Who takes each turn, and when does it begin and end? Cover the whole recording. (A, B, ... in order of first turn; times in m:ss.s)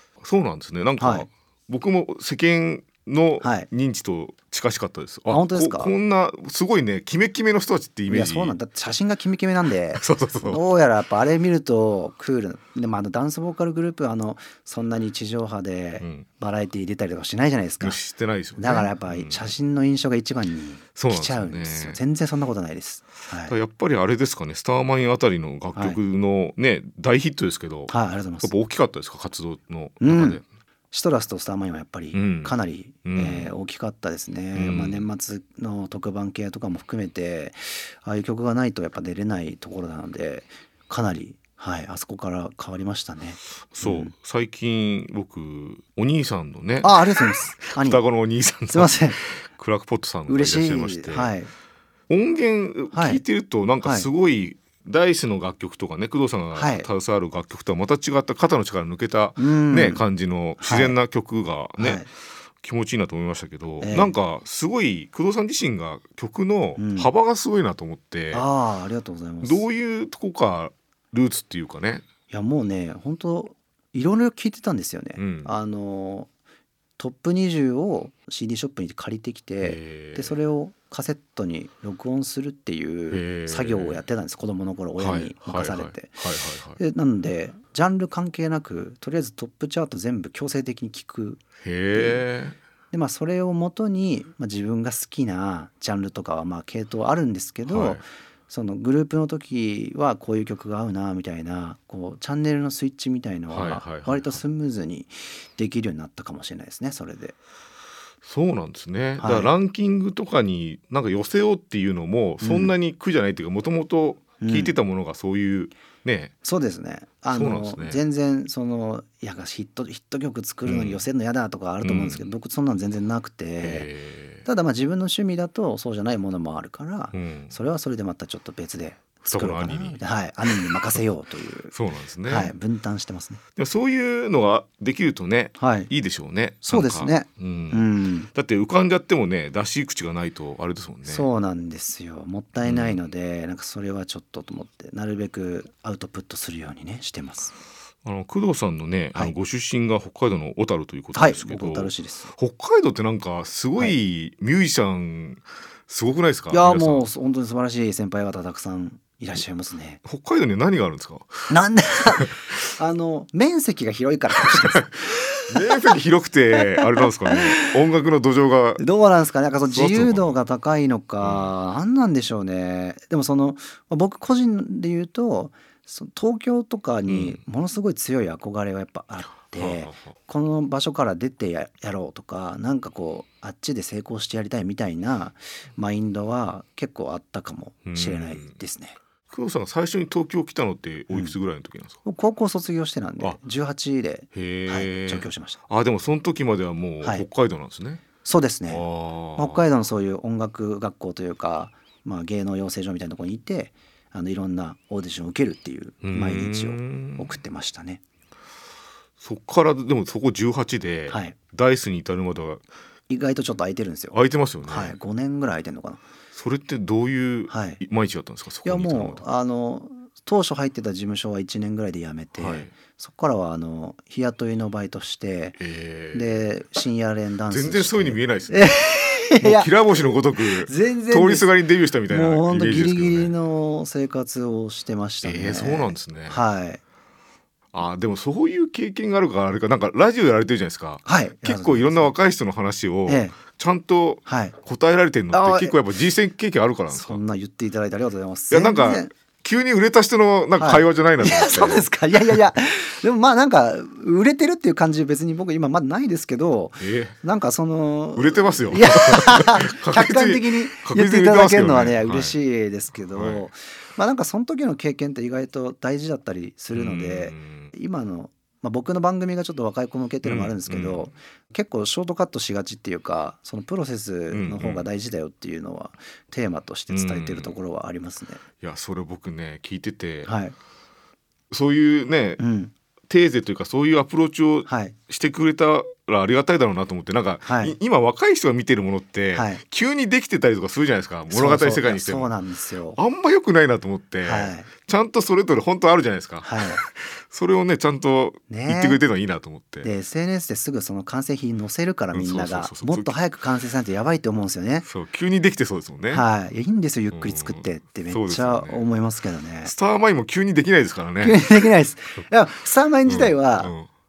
0:00.2-0:08.6 A
0:01.0-0:01.3 B
0:03.4-0:03.7 B
0:05.3-0:06.0 B
0:08.1-0:18.0 B
0:09.9-0:10.6 A
0:16.0-0:16.3 A
0:17.8-0:19.5 A
0:18.6-0:23.5 B
0:21.0-0:22.0 A
0:23.4-0:30.4 A
0:25.8-0:26.0 B
0:27.9-0:28.5 B
0:30.0-0:44.1 B
0:32.1-0:33.5 A
0:34.5-0:35.1 A
0:43.7-0:51.3 A
0:46.8-0:48.0 B
0:48.7-0:49.2 B
0:50.3-0:51.5 B
0:52.1-1:02.1 A
0:52.9-0:53.2 B
0:53.8-0:54.1 B
0:56.6-0:56.9 B
0:59.4-1:00.0 B
1:00.6-1:01.0 B
1:01.8-1:02.1 B
1:02.6-1:08.5 A
1:03.8-1:04.2 B
1:06.8-1:07.1 B
1:08.3-1:09.6 B
1:09.4-1:12.1 A
1:12.3-1:16.3 B
1:15.2-1:15.6 A
1:17.0-1:26.2 B
1:19.6-1:20.4 A
1:23.1-1:24.0 A
1:25.0-1:26.8 A
1:26.8-1:31.4 B
1:31.6-1:32.6 A
1:31.9-1:32.2 B
1:32.9-1:47.4 B
1:37.7-1:38.0 A
1:43.5-1:44.4 A
1:48.2-1:56.3 A
1:49.2-1:49.5 B
1:52.4-1:52.7 B
1:54.4-1:54.8 B
1:56.4-2:03.9 B
1:57.3-1:58.0 A
2:00.7-2:01.0 A
2:01.8-2:02.2 A
2:03.6-2:04.4 A
2:04.4-2:11.7 B
2:07.1-2:07.6 A
2:09.2-2:11.0 A
2:11.7-2:12.5 A
2:12.3-2:13.4 B
2:13.6-2:21.3 A
2:15.6-2:15.9 B
2:16.6-2:18.3 B
2:21.0-2:27.5 B
2:22.6-2:23.0 A
2:28.0-2:37.1 A
2:31.1-2:32.3 B
2:36.5-2:40.0 B
2:40.0-2:41.5 A
2:41.5-2:45.4 B
2:45.5-2:48.8 A
2:46.6-2:47.4 B
2:48.8-3:09.0 B
2:49.6-2:50.4 A
2:51.2-2:51.5 A
2:57.1-2:57.4 A
2:59.4-3:00.1 A
3:07.9-3:08.6 A
3:09.3-3:12.0 A
3:12.0-3:15.6 B
3:14.3-3:18.0 A
3:18.2-3:18.8 B
3:18.7-3:19.7 A
3:19.4-3:28.0 B
3:26.0-3:27.4 A
3:29.2-3:32.6 A
3:31.1-3:31.4 B
3:33.1-3:36.0 B
3:34.1-3:35.0 A
3:36.3-3:39.2 A
3:37.5-3:37.8 B
3:38.6-3:45.6 B
3:42.4-3:42.7 A
3:45.6-3:46.4 A
3:46.1-3:51.5 B
3:47.5-3:53.4 A
3:52.1-3:56.8 B
3:55.2-3:56.4 A
3:57.7-4:07.2 A
4:01.0-4:02.1 B
4:03.1-4:03.4 B
4:04.3-4:04.6 B
4:05.3-4:05.8 B
4:06.9-4:09.1 B
4:08.5-4:11.9 A
4:10.6-4:38.4 B
4:16.8-4:17.2 A
4:18.2-4:22.4 A
4:23.1-4:23.5 A
4:26.7-4:27.7 A
4:30.2-4:31.1 A
4:34.3-4:34.9 A
4:36.9-4:37.5 A
4:38.6-4:40.4 A
4:40.2-4:40.6 B
4:41.5-4:42.4 A
4:42.4-4:42.7 B
4:43.1-4:52.3 A
4:44.7-4:45.0 B
4:47.4-4:47.8 B
4:49.3-4:49.6 B
4:51.3-4:53.0 B
4:52.9-4:59.9 A
4:54.2-4:54.7 B
4:56.4-4:56.8 B
4:58.5-4:59.0 B
4:59.8-5:04.9 B
5:02.1-5:03.2 A
5:04.9-5:06.2 A
5:06.1-5:09.7 B
5:07.1-5:08.8 A
5:09.6-5:11.7 A
5:11.2-5:13.7 B
5:13.1-5:13.9 A